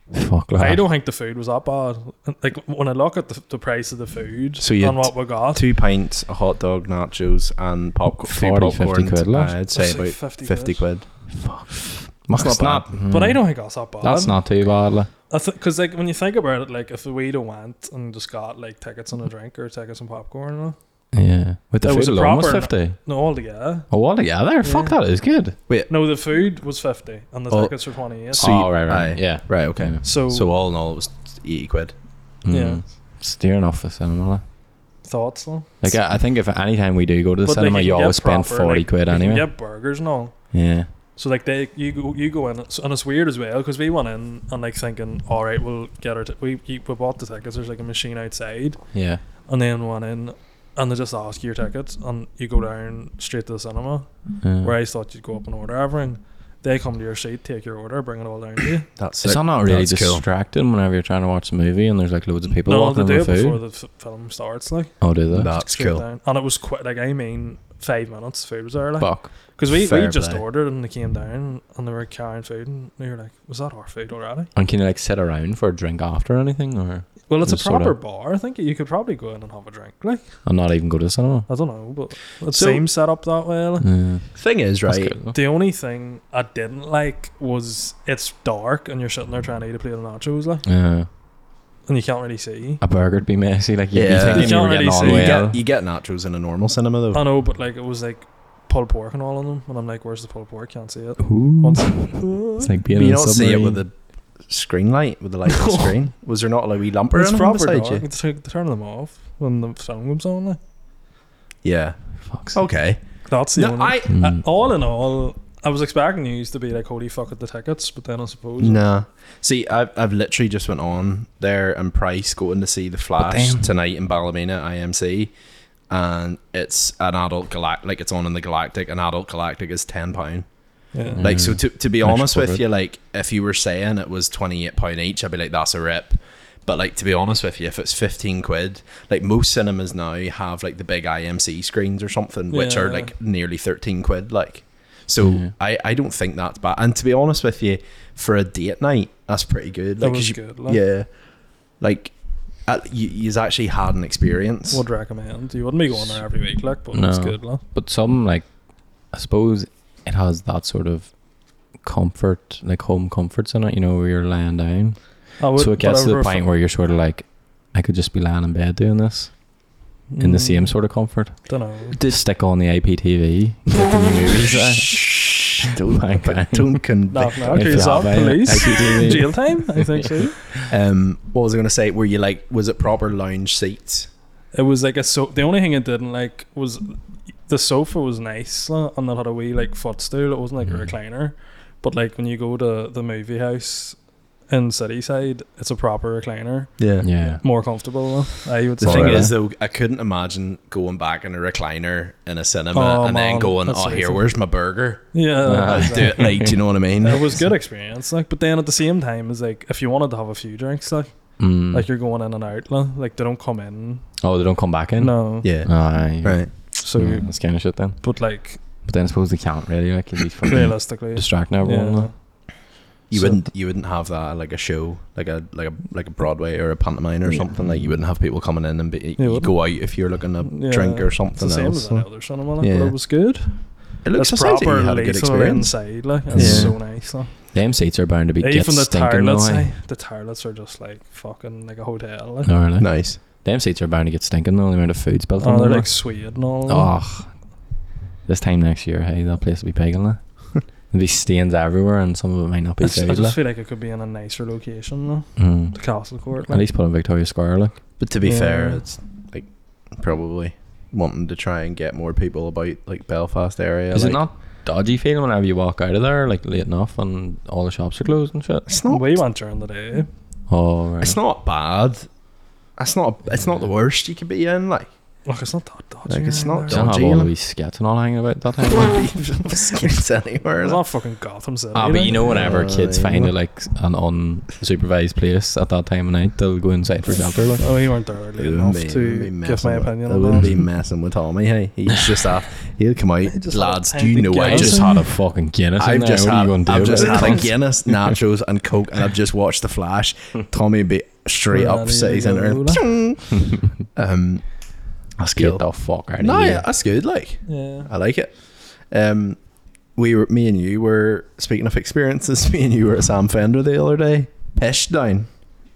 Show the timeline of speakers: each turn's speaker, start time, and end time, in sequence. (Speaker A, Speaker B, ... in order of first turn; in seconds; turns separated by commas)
Speaker A: 0.1-0.8, Speaker B: 0.6-5.7, Speaker C: 4.6-13.0, Speaker A: 8.2-9.6, Speaker B: 9.7-10.9, Speaker A: 11.3-15.1, Speaker B: 13.1-14.6, Speaker B: 15.3-20.8, Speaker A: 21.1-23.0, Speaker B: 21.8-23.9, Speaker A: 23.9-25.6, Speaker B: 24.6-25.0, Speaker B: 25.9-28.6, Speaker C: 27.5-32.0, Speaker A: 28.4-30.0, Speaker B: 30.0-30.5, Speaker A: 32.4-34.4, Speaker B: 32.5-32.8, Speaker B: 35.0-35.9, Speaker A: 35.8-39.5, Speaker B: 37.4-58.9, Speaker A: 40.5-40.9, Speaker A: 48.9-49.2, Speaker A: 54.4-54.7, Speaker C: 59.0-60.2, Speaker A: 59.2-63.6, Speaker B: 62.6-74.5, Speaker A: 65.0-65.5, Speaker C: 65.3-66.0, Speaker A: 69.0-69.3, Speaker C: 69.7-70.4, Speaker A: 74.5-77.9, Speaker B: 77.3-80.4, Speaker A: 80.4-81.5, Speaker B: 81.5-83.9, Speaker C: 82.5-82.8, Speaker A: 83.8-85.3, Speaker C: 84.3-85.2, Speaker B: 85.3-90.7, Speaker A: 90.6-91.1, Speaker B: 91.8-92.8, Speaker A: 92.8-95.6, Speaker C: 93.9-97.2, Speaker B: 94.2-95.5, Speaker B: 97.1-102.7, Speaker A: 101.2-103.8, Speaker C: 102.9-103.9, Speaker C: 104.5-108.0, Speaker B: 105.5-105.9, Speaker B: 107.1-110.6, Speaker C: 111.6-113.0, Speaker A: 112.3-112.6, Speaker B: 113.3-118.8, Speaker C: 113.5-114.2, Speaker A: 114.1-114.4, Speaker C: 118.6-125.3, Speaker A: 123.2-123.7, Speaker C: 125.9-130.4, Speaker B: 130.9-131.2, Speaker A: 131.1-132.6, Speaker C: 131.1-151.1, Speaker B: 142.5-143.1, Speaker A: 145.2-145.5, Speaker B: 150.0-150.8, Speaker C: 151.8-152.1, Speaker C: 152.6-154.8, Speaker B: 154.7-157.6, Speaker A: 156.9-169.7, Speaker B: 165.4-166.4, Speaker B: 170.1-172.0, Speaker A: 170.2-176.8, Speaker C: 173.8-179.3, Speaker B: 177.1-180.4, Speaker A: 177.5-180.3, Speaker C: 180.5-184.1, Speaker B: 184.5-199.3, Speaker A: 190.6-190.9, Speaker C: 196.8-197.1, Speaker A: 197.0-197.4, Speaker C: 198.8-207.4, Speaker A: 198.8-199.3, Speaker B: 202.7-204.3, Speaker B: 205.1-214.2, Speaker A: 205.4-206.6, Speaker A: 211.4-211.9, Speaker A: 214.2-222.1, Speaker B: 215.0-215.5, Speaker C: 215.4-216.5, Speaker B: 216.7-218.6, Speaker B: 220.5-222.5, Speaker C: 223.1-233.0, Speaker B: 223.1-223.4, Speaker A: 227.6-228.0, Speaker B: 229.2-229.8, Speaker B: 230.4-237.5, Speaker C: 234.0-236.8, Speaker A: 236.3-239.7, Speaker B: 238.4-242.5, Speaker A: 242.4-246.0, Speaker C: 242.8-243.2, Speaker B: 245.4-246.9, Speaker A: 246.7-247.4, Speaker A: 248.2-253.3, Speaker B: 252.8-256.6, Speaker A: 255.4-257.8, Speaker C: 258.0-264.2, Speaker B: 258.2-258.8, Speaker A: 263.9-268.6, Speaker C: 268.6-269.2, Speaker B: 268.9-270.1, Speaker A: 270.5-271.2, Speaker C: 271.0-272.1, Speaker C: 272.8-274.9, Speaker B: 275.2-276.9, Speaker C: 276.1-277.3, Speaker A: 276.7-279.0, Speaker C: 278.7-280.8, Speaker B: 280.6-282.4, Speaker A: 281.7-287.6, Speaker C: 282.3-283.3, Speaker B: 287.6-290.5, Speaker C: 288.4-295.0, Speaker A: 290.4-290.6, Speaker B: 293.3-295.0, Speaker A: 294.4-298.1, Speaker C: 295.8-304.4, Speaker B: 296.8-297.5, Speaker B: 301.5-302.8, Speaker C: 305.2-305.6, Speaker A: 305.2-306.6, Speaker C: 306.2-309.4, Speaker B: 307.5-307.9, Speaker C: 309.9-315.3